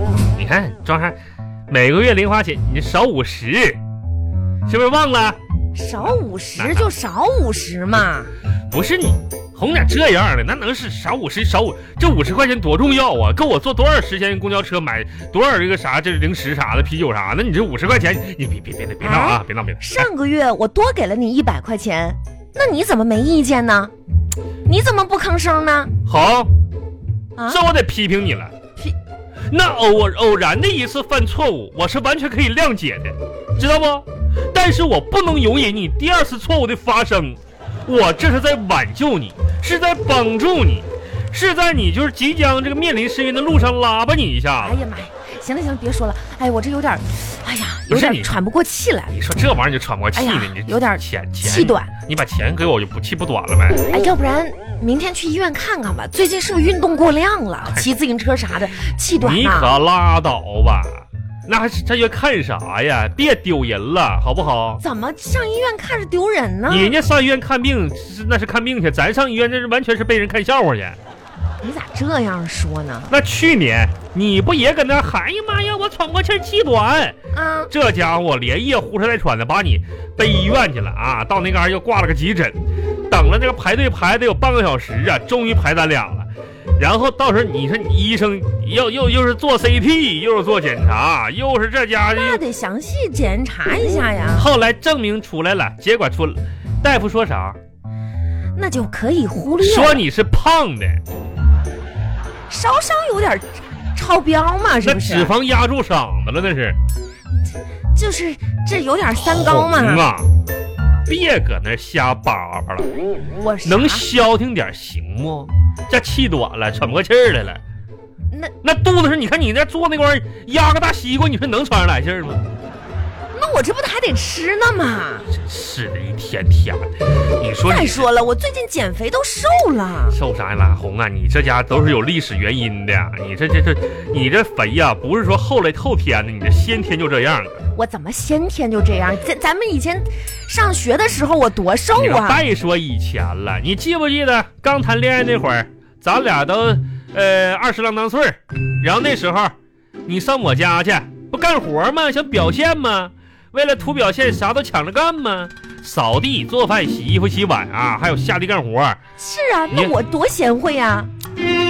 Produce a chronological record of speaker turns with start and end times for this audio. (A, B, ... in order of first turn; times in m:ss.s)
0:00.2-0:03.8 A
0:04.6-0:05.4 A
0:05.7-0:08.3 B
0:06.0-0:06.9 A
0:08.7-0:20.1 A
0:19.0-0:23.9 B
0:24.6-0:25.9 B
0:26.0-0:26.5 A
0:27.4-0:28.5 A
0:29.5-0:44.8 A
0:44.6-0:49.1 B
0:47.9-0:48.4 A
0:49.1-0:53.9 A
0:50.1-0:51.9 B
0:53.9-0:59.8 B
0:59.2-1:04.8 A
1:04.8-1:06.9 B
1:06.7-1:11.0 A
1:11.6-1:13.1 B
1:13.1-1:17.2 A
1:17.3-1:17.7 B
1:17.7-1:22.6 A
1:23.1-1:32.4 A
1:32.1-1:34.5 B
1:34.3-1:37.6 A
1:38.6-1:40.0 B
1:39.6-1:41.0 A
1:42.5-1:45.3 B
1:44.8-1:46.8 A
1:47.9-1:50.1 B
1:49.1-1:50.3 A
1:51.1-1:52.9 A
1:53.4-1:54.1 B
1:53.6-1:57.6 A
1:58.6-2:02.4 A
2:03.3-2:05.3 B
2:05.3-2:08.1 A
2:07.6-2:10.2 B
2:10.1-2:17.6 A
2:17.7-2:22.4 B
2:21.9-2:29.5 A
2:30.0-2:39.0 A
2:39.2-2:41.1 B